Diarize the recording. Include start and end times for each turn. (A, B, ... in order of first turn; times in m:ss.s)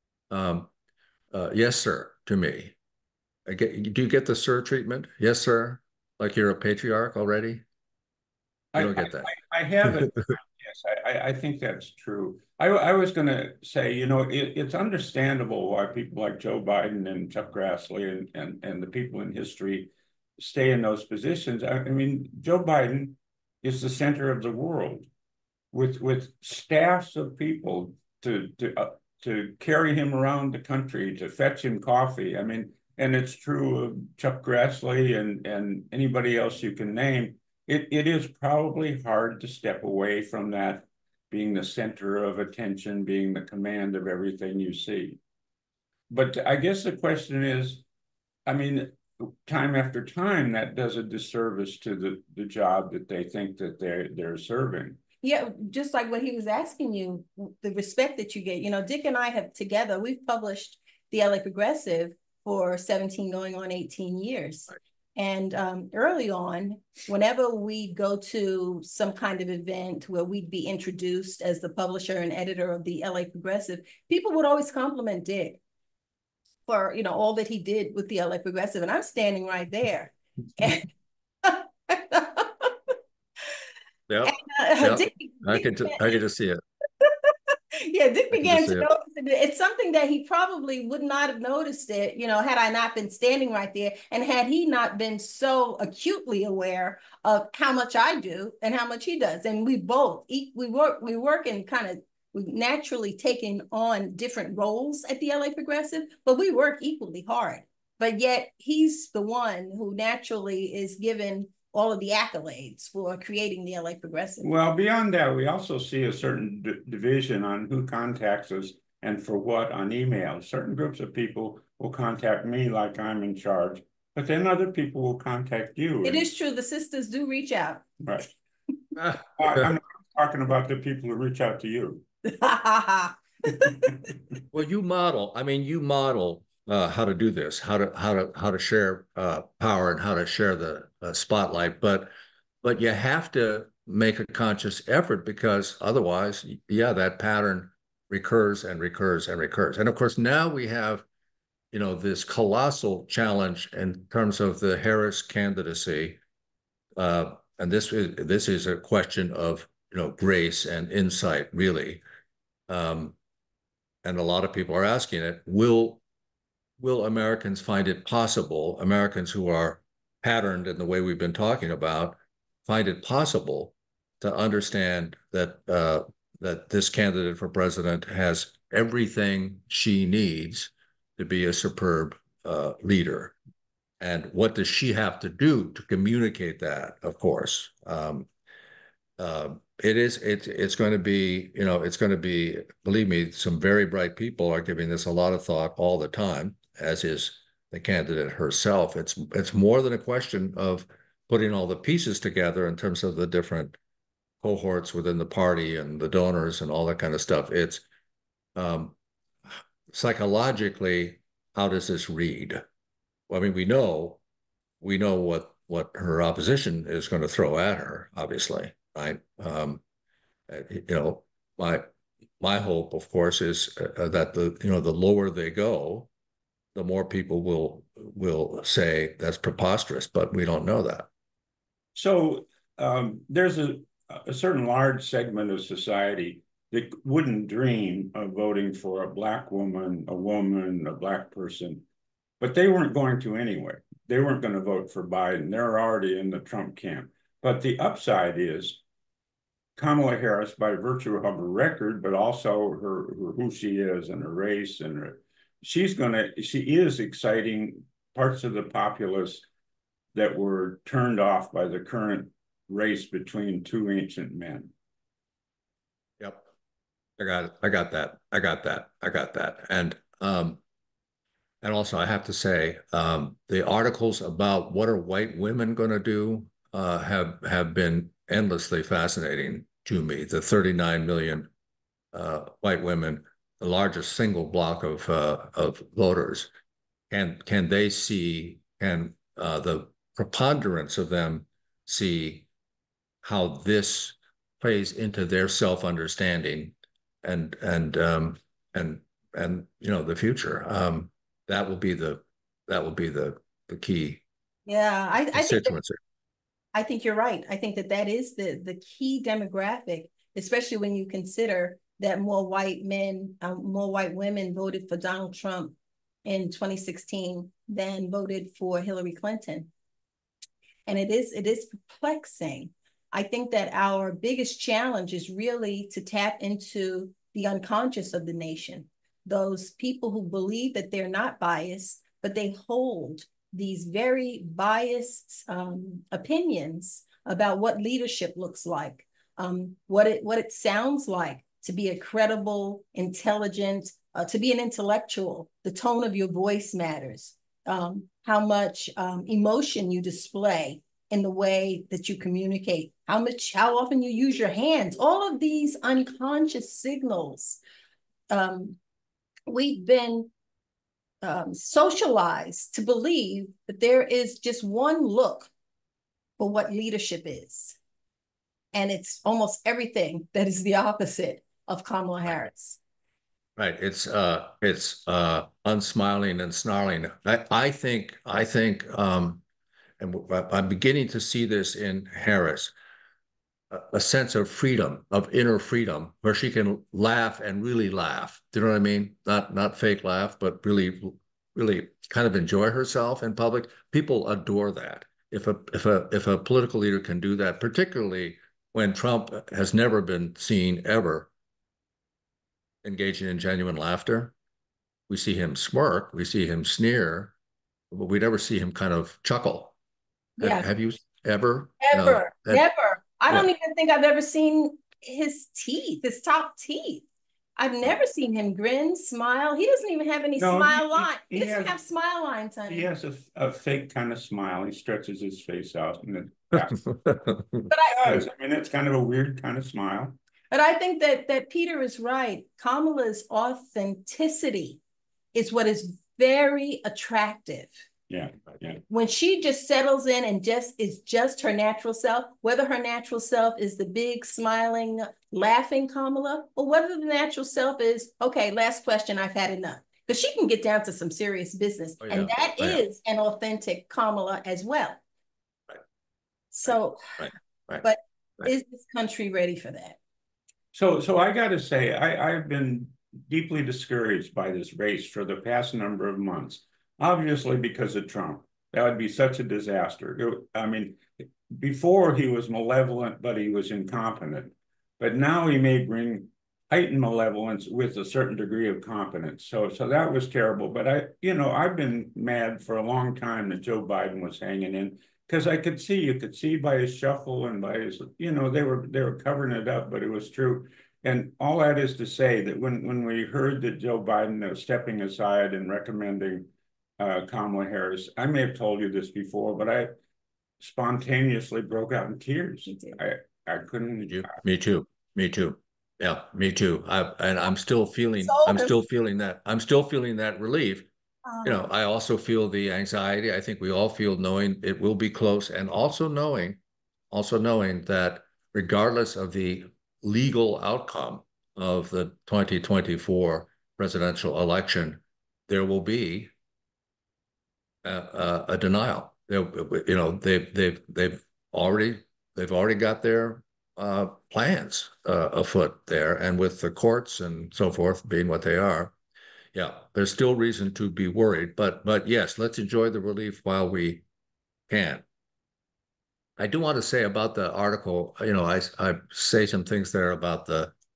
0:00.3-0:00.7 A
0:01.3-0:02.7 A
0:03.4-0:07.6 A
0:08.7-0:25.1 B
0:08.7-0:09.3 A
0:10.0-0:10.3 A
0:25.7-0:45.2 B
0:46.1-0:47.8 B
0:48.4-0:55.0 B
0:55.2-1:15.6 C
1:16.6-1:20.9 C
1:21.4-1:22.7 C
1:24.1-1:26.6 A
1:24.2-1:26.1 C
1:27.0-1:54.5 C
1:28.3-1:28.9 A
1:54.4-2:06.2 B
2:06.0-2:07.8 C
2:08.0-2:08.3 B
2:09.0-2:09.6 A
2:09.4-2:12.0 B
2:12.2-2:13.9 C
2:14.5-2:22.1 A
2:22.6-2:31.0 A
2:31.7-2:36.2 A
2:37.0-2:42.0 A
2:42.7-2:43.2 A
2:44.0-2:46.0 A
2:46.8-3:03.3 A
3:04.0-3:08.3 A
3:09.2-3:23.8 A
3:24.4-3:27.8 A
3:28.5-3:28.9 A
3:29.9-3:32.6 A
3:33.3-3:34.2 A
3:34.8-3:39.8 A
3:40.5-3:41.8 A
3:42.4-3:46.1 A
3:46.7-3:51.1 A
3:51.9-4:01.8 B
4:02.4-4:08.8 B
4:09.8-4:19.4 B
4:20.1-4:24.7 B
4:26.2-4:26.5 A
4:27.2-4:30.6 A
4:31.6-4:41.5 A
4:42.1-4:46.5 A
4:47.1-4:52.4 A
4:53.2-5:04.2 A
5:04.6-5:05.8 C
5:05.3-5:06.0 A
5:06.7-5:19.7 C
5:20.9-5:57.6 C
5:58.3-5:58.8 C
5:59.5-6:00.3 C
6:01.2-6:05.5 C
6:06.4-6:07.8 C
6:08.7-6:12.8 C
6:13.6-6:19.4 A
6:20.0-6:22.7 A
6:23.7-6:41.3 A
6:42.8-6:44.3 A
6:45.1-6:47.3 A
6:47.9-6:49.7 A
6:50.4-6:50.7 C
6:50.4-6:52.6 A
6:51.8-6:57.0 C
6:57.6-7:02.9 C
7:00.4-7:01.8 B
7:02.7-7:06.8 B
7:06.9-7:08.2 A
7:07.7-7:08.0 C
7:07.9-7:10.2 B
7:10.5-7:14.8 C
7:15.3-7:17.8 C
7:18.1-7:18.8 B
7:18.9-7:35.0 C
7:32.0-7:32.8 A
7:36.5-7:37.0 C
7:36.6-7:37.8 A
7:37.8-7:40.0 C
7:40.7-8:19.9 B
8:20.6-8:24.4 B
8:22.7-8:23.0 C
8:24.1-8:30.9 A
8:28.2-8:28.8 C
8:31.2-8:31.7 C
8:31.4-8:36.6 A
8:37.1-8:46.3 A
8:47.8-8:58.9 A
8:59.5-9:04.0 A
9:04.7-9:05.0 A
9:06.4-9:10.7 A